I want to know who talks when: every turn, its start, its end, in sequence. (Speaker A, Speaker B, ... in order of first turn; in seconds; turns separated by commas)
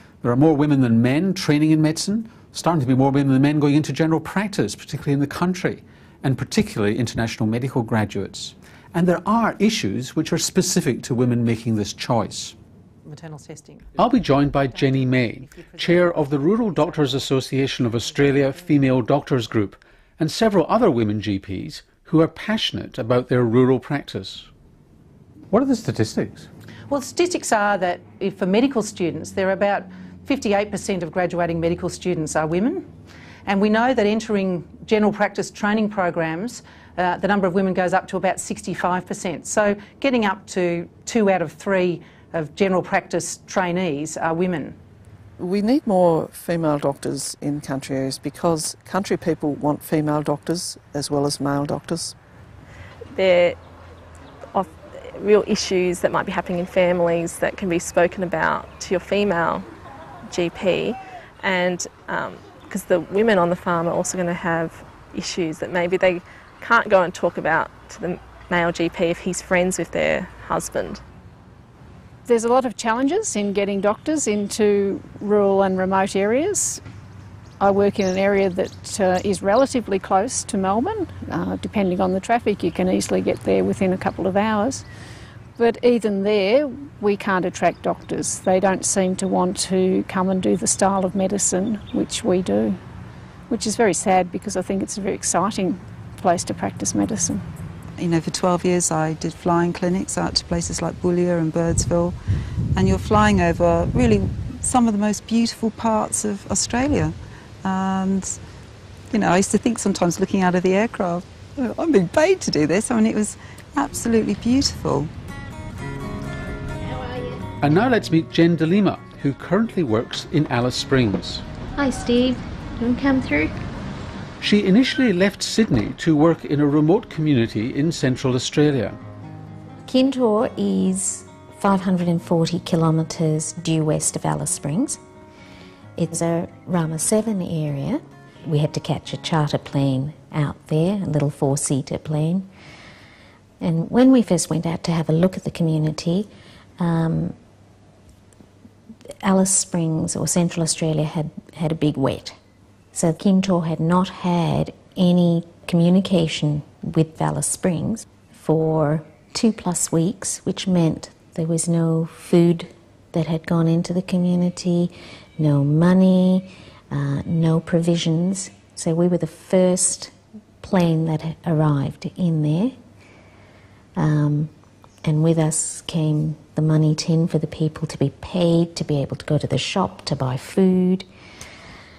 Speaker A: 0.2-12.6, Speaker B: 13.1-13.9, Speaker A: 14.0-24.5, Speaker B: 14.7-17.2, Speaker A: 25.5-26.5, Speaker B: 26.9-32.9, Speaker B: 33.5-44.8, Speaker C: 45.4-52.1, Speaker D: 53.1-53.6, Speaker D: 54.5-59.7, Speaker D: 60.3-71.0, Speaker E: 72.2-76.8, Speaker E: 77.6-84.9, Speaker E: 85.6-92.8, Speaker E: 93.5-97.5, Speaker F: 98.0-102.2, Speaker F: 102.8-108.4, Speaker F: 109.1-115.1, Speaker A: 117.6-121.4, Speaker G: 121.8-123.6, Speaker A: 124.4-129.0, Speaker G: 129.9-135.0, Speaker G: 136.0-142.5, Speaker G: 143.6-147.4, Speaker G: 149.2-152.4, Speaker G: 152.9-172.8, Speaker G: 174.0-174.5, Speaker G: 175.0-181.1